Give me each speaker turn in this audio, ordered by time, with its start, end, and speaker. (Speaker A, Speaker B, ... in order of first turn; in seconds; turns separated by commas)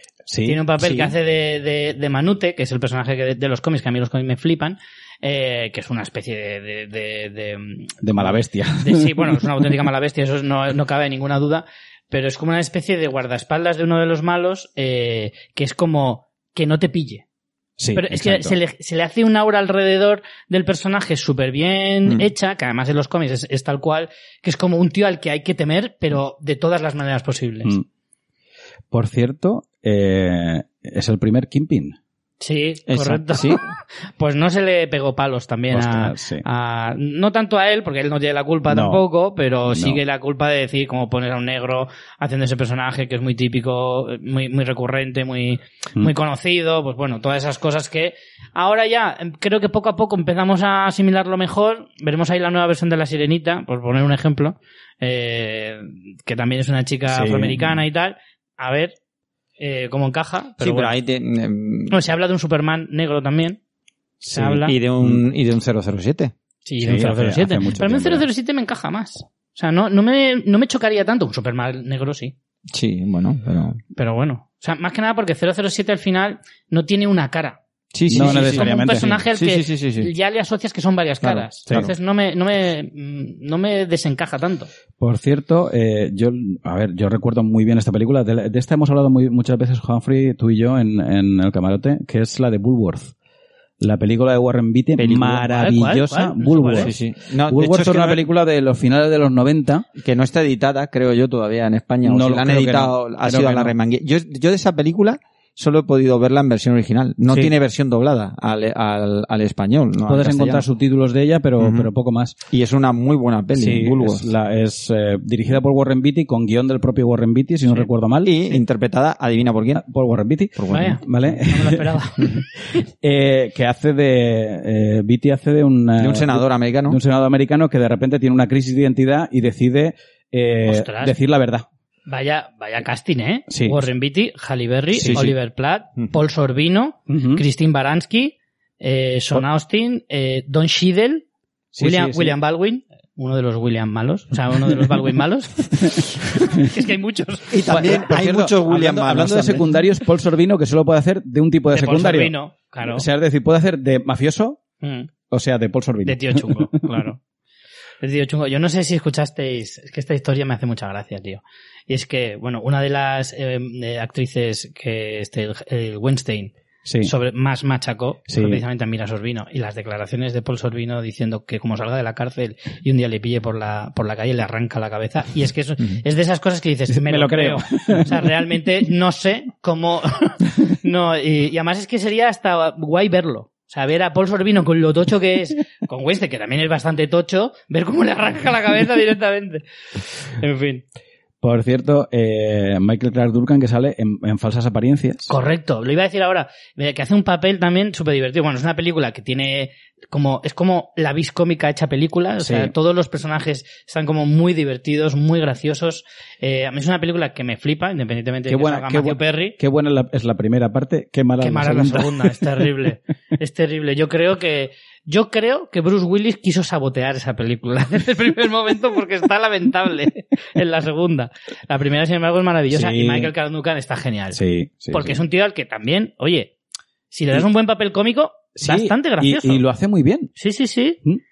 Speaker A: 0.3-1.1, Speaker B: 0.5-17.2, Speaker A: 8.0-9.5, Speaker A: 17.8-18.6, Speaker B: 17.9-27.8, Speaker A: 28.9-32.0, Speaker B: 32.4-33.6, Speaker C: 32.9-33.6, Speaker B: 34.2-59.0, Speaker A: 35.7-36.5, Speaker A: 38.7-39.0, Speaker A: 39.7-40.0, Speaker A: 57.1-57.8, Speaker B: 59.6-60.9, Speaker C: 60.6-62.0, Speaker B: 61.9-63.6, Speaker A: 64.2-65.2, Speaker B: 64.3-64.8, Speaker C: 64.7-66.3, Speaker B: 66.7-72.3, Speaker A: 66.8-68.3, Speaker C: 72.7-73.8, Speaker B: 73.9-84.7, Speaker C: 77.9-80.1, Speaker A: 78.1-79.2, Speaker C: 81.2-81.9, Speaker A: 85.0-93.1, Speaker A: 93.8-97.0, Speaker C: 95.0-95.5, Speaker B: 95.5-96.9, Speaker C: 96.8-98.2, Speaker A: 97.5-99.8, Speaker C: 100.0-110.7, Speaker A: 102.0-103.7, Speaker A: 110.0-112.3, Speaker C: 111.6-111.9, Speaker C: 112.5-114.3, Speaker A: 113.6-118.3, Speaker C: 118.2-119.8, Speaker A: 119.8-122.0, Speaker C: 120.6-121.0, Speaker B: 120.7-122.5, Speaker A: 123.0-131.7, Speaker C: 126.0-127.0, Speaker B: 130.7-131.2, Speaker B: 132.1-141.2, Speaker A: 133.5-133.8, Speaker A: 135.0-135.3, Speaker C: 135.0-135.3, Speaker A: 137.1-137.4, Speaker A: 141.7-142.4, Speaker B: 141.8-147.8, Speaker C: 147.5-149.7, Speaker A: 147.7-154.6, Speaker B: 151.7-153.1, Speaker B: 154.8-155.1, Speaker A: 155.3-156.8, Speaker B: 156.1-157.2, Speaker B: 158.0-189.7, Speaker A: 166.8-167.1, Speaker A: 168.3-168.6, Speaker A: 176.9-178.3, Speaker B: 190.3-190.8, Speaker A: 191.4-195.3, Speaker B: 195.3-209.6, Speaker A: 202.4-202.7, Speaker A: 208.5-212.7, Speaker B: 211.4-224.4, Speaker A: 222.7-223.3, Speaker A: 224.3-225.2, Speaker B: 224.9-226.5, Speaker B: 227.1-229.6, Speaker A: 228.6-230.3, Speaker B: 230.4-231.0